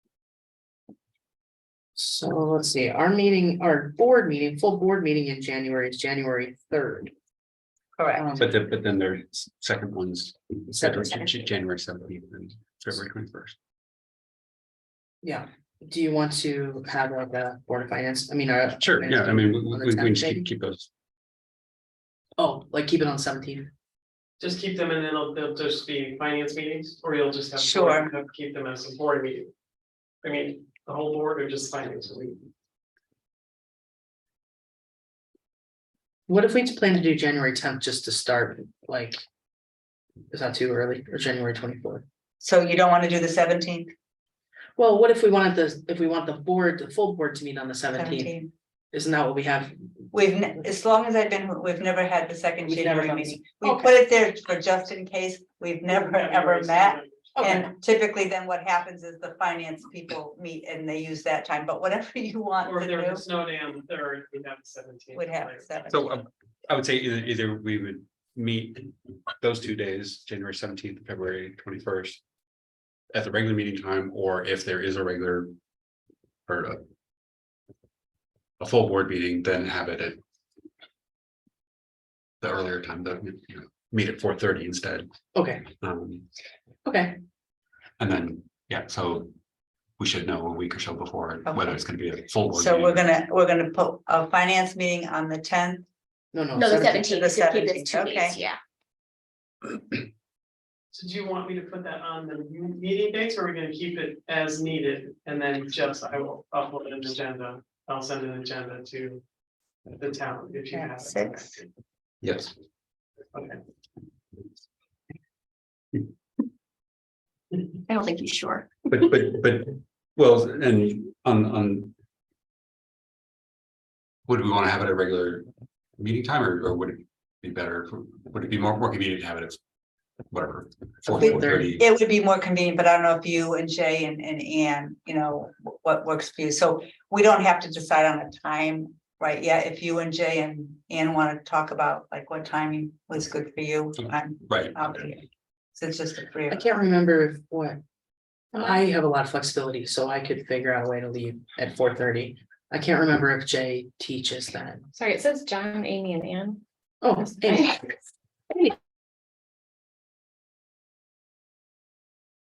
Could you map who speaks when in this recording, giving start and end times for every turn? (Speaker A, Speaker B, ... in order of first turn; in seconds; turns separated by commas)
Speaker A: 1.9-7.1, Speaker B: 8.0-8.3, Speaker A: 8.1-8.6, Speaker C: 8.4-13.6, Speaker A: 10.7-11.4, Speaker A: 15.2-20.4, Speaker C: 18.8-20.9, Speaker A: 22.4-23.7, Speaker D: 24.4-29.5, Speaker B: 27.6-28.1, Speaker D: 30.2-32.4, Speaker A: 36.3-39.2, Speaker A: 40.3-42.0, Speaker B: 42.4-43.9, Speaker A: 44.8-48.4, Speaker B: 47.9-48.5, Speaker A: 48.9-49.8, Speaker B: 50.1-63.2, Speaker A: 52.6-54.0, Speaker D: 55.9-57.6, Speaker A: 57.3-57.7, Speaker D: 62.6-65.7, Speaker B: 65.1-66.0, Speaker C: 65.9-72.2, Speaker C: 73.1-75.5, Speaker C: 76.5-76.8, Speaker C: 78.6-80.2, Speaker C: 82.4-85.1, Speaker A: 85.3-85.7, Speaker C: 85.8-86.3, Speaker A: 86.8-87.2, Speaker C: 88.0-89.3, Speaker C: 90.0-93.1, Speaker B: 91.5-91.8, Speaker B: 92.5-95.9, Speaker A: 96.3-97.0, Speaker E: 96.6-98.6, Speaker B: 96.9-98.4, Speaker D: 100.9-109.2, Speaker D: 110.0-111.7, Speaker B: 110.7-111.6, Speaker C: 112.2-112.5, Speaker D: 113.3-113.6, Speaker E: 117.9-118.7, Speaker C: 118.9-121.9, Speaker C: 124.3-129.6, Speaker C: 130.3-131.8, Speaker A: 131.0-131.8, Speaker B: 131.2-146.7, Speaker C: 144.5-144.9, Speaker A: 146.5-147.8, Speaker A: 148.5-154.9, Speaker F: 154.9-156.6, Speaker A: 157.0-158.0, Speaker F: 157.3-157.7, Speaker A: 158.5-158.7